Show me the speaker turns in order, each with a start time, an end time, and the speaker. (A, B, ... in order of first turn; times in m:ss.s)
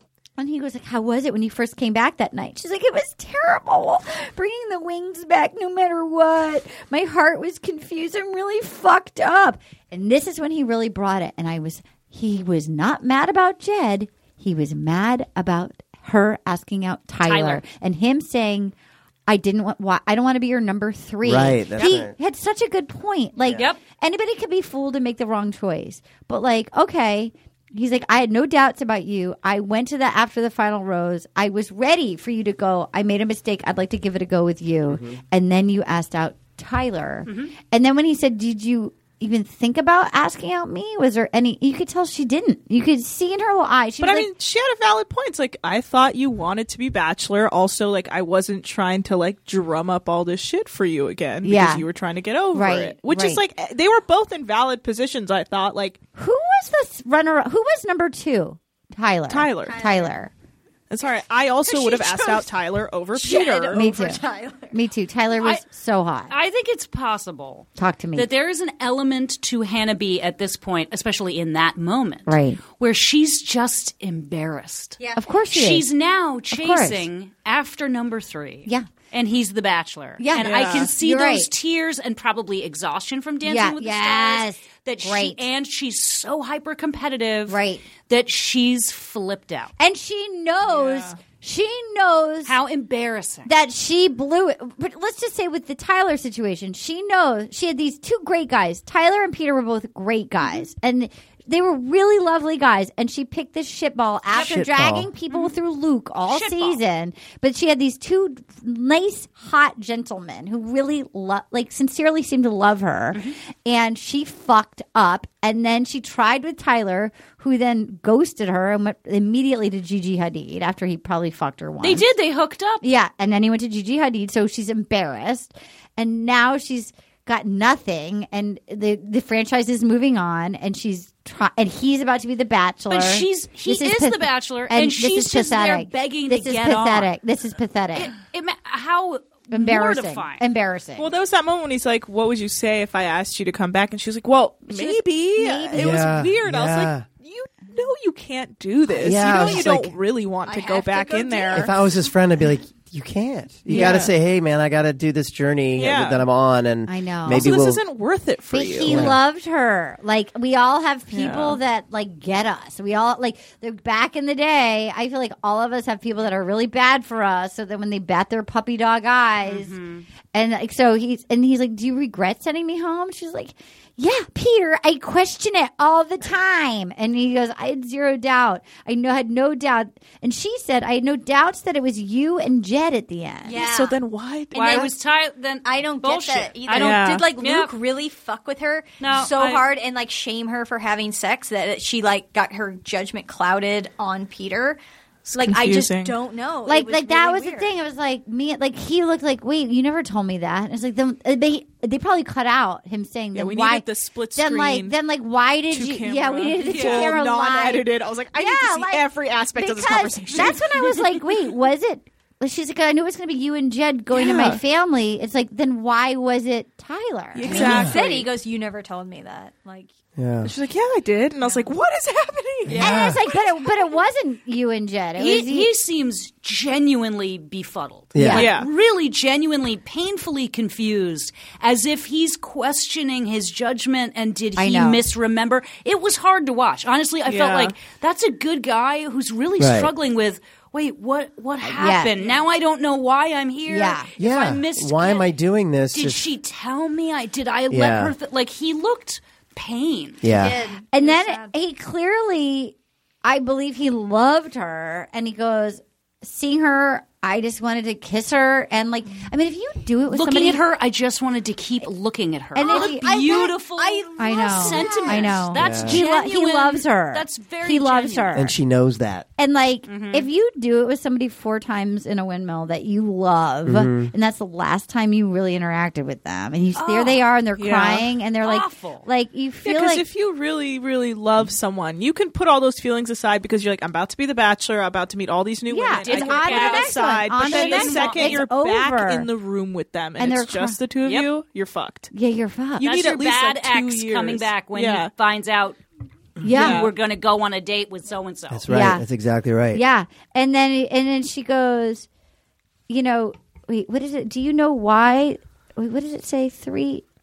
0:00.4-0:18.7 A
0:17.2-0:17.6 B
0:19.3-0:44.3 A
0:21.2-0:22.1 C
0:23.4-0:23.7 C
0:34.9-0:35.2 C
0:37.3-0:37.5 B
0:44.0-0:56.0 D
0:51.4-0:51.8 A
0:52.5-0:53.4 A
0:56.2-1:00.3 A
0:59.3-0:59.8 D
0:59.6-1:00.1 E
1:00.9-1:03.8 D
1:01.6-1:02.5 E
1:03.1-1:04.7 E
1:03.7-1:06.3 A
1:06.3-1:15.0 B
1:07.8-1:08.3 A
1:12.3-1:12.6 A
1:15.0-1:15.2 E
1:15.2-1:15.8 A
1:15.5-1:29.7 B
1:16.5-1:17.0 A
1:20.2-1:21.5 A
1:20.4-1:20.9 D
1:23.4-1:25.4 A
1:27.5-1:27.8 A
1:29.8-1:32.5 A
1:30.6-1:31.2 D
1:32.4-1:33.5 B
1:33.4-2:02.0 A
1:44.3-1:44.6 B
1:44.4-1:45.1 C
1:45.3-1:45.6 B
1:46.3-1:46.8 B
2:01.8-2:02.8 B
2:02.8-2:18.1 A
2:12.9-2:17.1 B
2:17.9-2:20.4 B
2:19.5-2:21.1 A
2:21.0-2:31.7 D
2:24.7-2:26.1 A
2:25.7-2:27.0 C
2:28.9-2:29.9 C
2:30.4-2:31.9 E
2:31.5-2:37.8 C
2:33.7-2:34.1 D
2:33.7-2:34.0 A
2:35.8-2:36.2 D
2:36.9-2:37.6 A
2:37.3-2:39.1 D
2:38.5-2:49.8 A
2:38.8-2:39.2 C
2:41.1-2:41.6 D
2:49.4-2:50.0 B
2:50.3-3:03.5 A
3:03.4-3:04.0 E
3:03.5-3:04.9 D
3:04.5-3:07.7 B
3:04.6-3:04.9 E
3:05.6-3:14.8 E
3:06.7-3:07.2 D
3:09.0-3:09.6 B
3:15.2-3:16.2 D
3:15.3-3:17.7 E
3:16.6-3:37.8 A
3:23.3-3:25.0 D
3:25.7-3:31.0 D
3:26.6-3:27.1 B
3:34.1-3:34.6 D
3:37.3-3:38.3 D
3:37.4-3:39.9 E
3:37.5-3:38.0 C
3:40.2-3:40.5 C
3:40.4-3:43.2 D
3:41.4-3:41.7 E
3:42.6-3:43.2 C
3:42.7-3:45.7 A
3:43.3-3:44.0 E
3:45.2-4:05.3 B
3:48.1-3:48.5 C
3:48.2-3:48.5 A
3:48.3-3:48.7 D
3:54.6-3:55.0 A
3:57.2-3:57.8 D
3:59.6-3:59.9 C
4:01.6-4:02.1 A
4:02.2-4:02.4 E
4:03.7-4:04.1 A
4:04.2-4:06.2 C
4:05.9-4:10.2 B
4:07.7-4:08.1 C
4:10.2-4:10.6 C
4:10.3-4:11.5 E
4:10.9-4:20.6 A
4:20.1-4:28.4 B
4:22.5-4:23.1 A
4:22.6-4:25.4 E
4:24.2-4:28.6 A
4:25.5-4:26.0 C
4:28.3-4:29.2 C
4:29.4-4:40.0 A
4:29.9-4:30.3 B
4:33.6-4:34.1 C
4:36.8-4:37.2 B
4:37.6-4:38.1 D
4:38.4-4:39.0 B
4:39.6-4:52.1 D
4:45.7-4:49.3 A
4:46.0-4:48.4 B
4:50.2-4:50.8 A
4:52.1-4:52.9 A
4:52.8-4:55.1 D
4:52.8-4:55.8 B
4:56.4-4:56.8 A
4:56.4-4:58.7 B
4:56.5-4:56.9 D
4:58.5-4:59.8 C
4:58.7-4:59.0 A
4:59.7-5:02.1 A
5:02.9-5:07.0 A